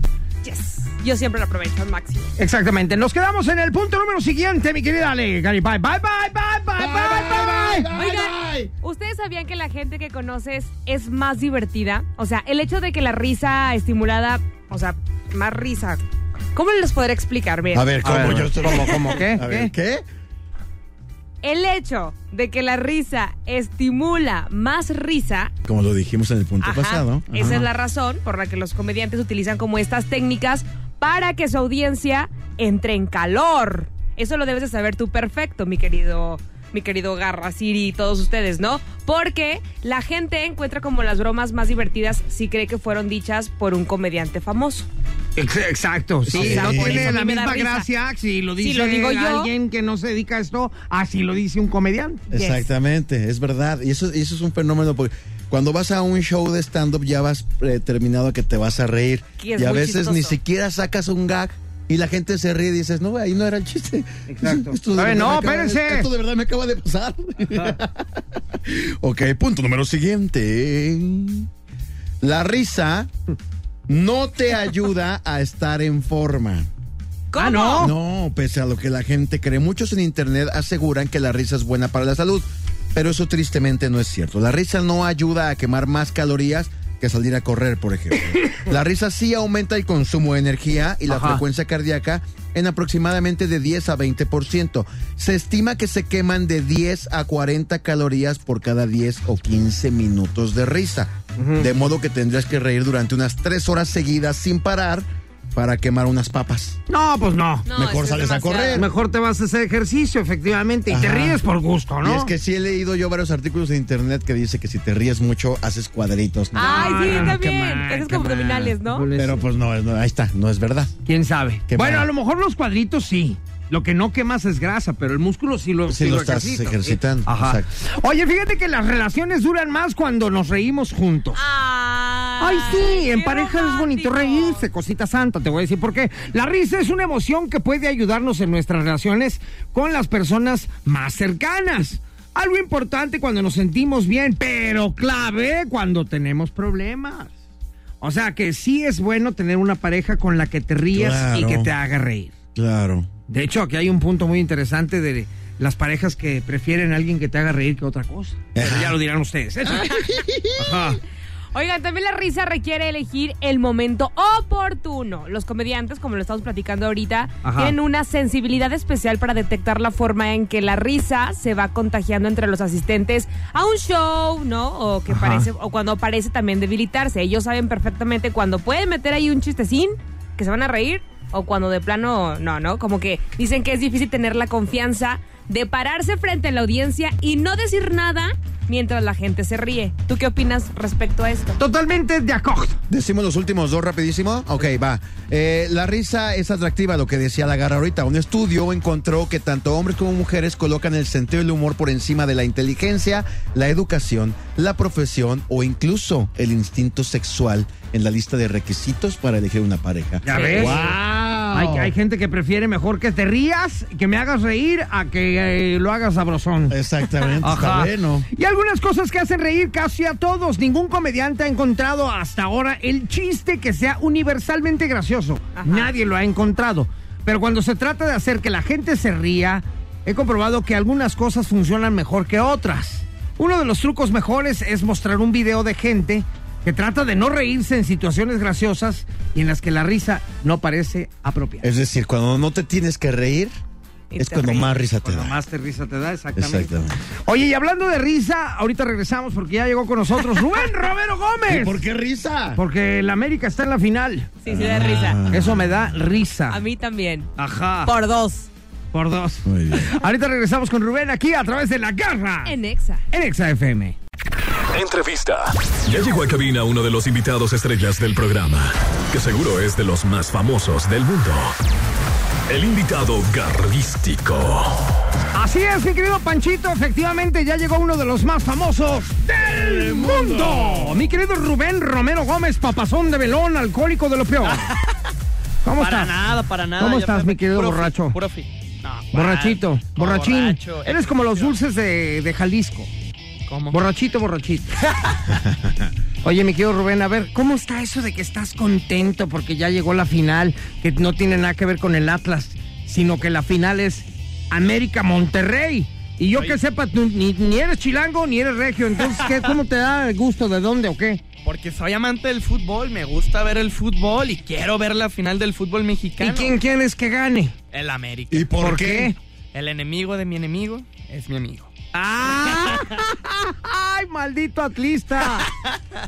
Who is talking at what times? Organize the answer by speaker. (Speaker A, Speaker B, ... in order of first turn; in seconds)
Speaker A: 0.4-2.3, 7.9-16.0, 16.6-17.9, 21.4-25.5, 26.6-44.9, 46.3-47.9, 48.6-49.5, 52.3-52.7, 59.4-60.4, 77.3-77.9, 107.7-108.9, 116.5-119.1, 131.3-134.7, 161.5-191.6, 210.3-210.7, 225.6-225.9, 244.1-244.7, 254.4-255.2, 256.5-257.3, 257.9-258.5, 262.4-263.0
Speaker B: 2.4-7.9, 18.0-19.7, 45.4-52.3, 64.3-66.1, 77.4-77.9, 91.1-91.4, 101.4-101.7, 106.9-107.7, 108.7-112.3, 116.5-119.5, 121.0-131.4, 132.4-147.3, 148.0-152.3, 153.3-160.0, 160.6-161.0, 167.4-167.8, 175.1-175.5, 191.6-192.8, 210.2-211.0, 211.5-216.8, 217.4-241.7, 245.0-246.7, 247.2-251.8, 252.6-254.3, 255.3-256.6, 257.4-257.9, 258.9-262.6, 263.1-264.0, 275.3-284.7, 285.6-286.2, 286.8-288.2, 289.1-292.9, 293.7-294.8, 296.2-311.2, 316.2-317.5, 318.6-319.1, 321.9-325.5
Speaker C: 6.8-8.7, 17.7-20.1, 25.6-27.7, 46.3-47.2, 52.3-68.1, 68.6-71.5, 72.2-73.1, 73.9-76.7, 77.8-106.8, 107.7-108.9, 110.9-111.4, 112.0-117.3, 119.2-121.0, 121.7-122.1, 125.9-127.7, 150.9-151.7, 152.6-153.1, 158.6-159.0, 159.7-160.7, 192.9-211.9, 216.7-218.3, 241.6-243.6, 244.2-245.4, 246.4-247.0, 251.5-252.6, 254.5-255.9, 259.4-259.9, 279.4-281.0, 318.3-319.1
Speaker D: 264.6-271.6, 272.5-274.9
Speaker E: 284.4-284.9, 285.8-291.6, 293.5-293.8, 306.3-306.6, 309.1-309.5, 311.4-316.6, 317.7-318.6, 319.5-321.7, 325.4-325.8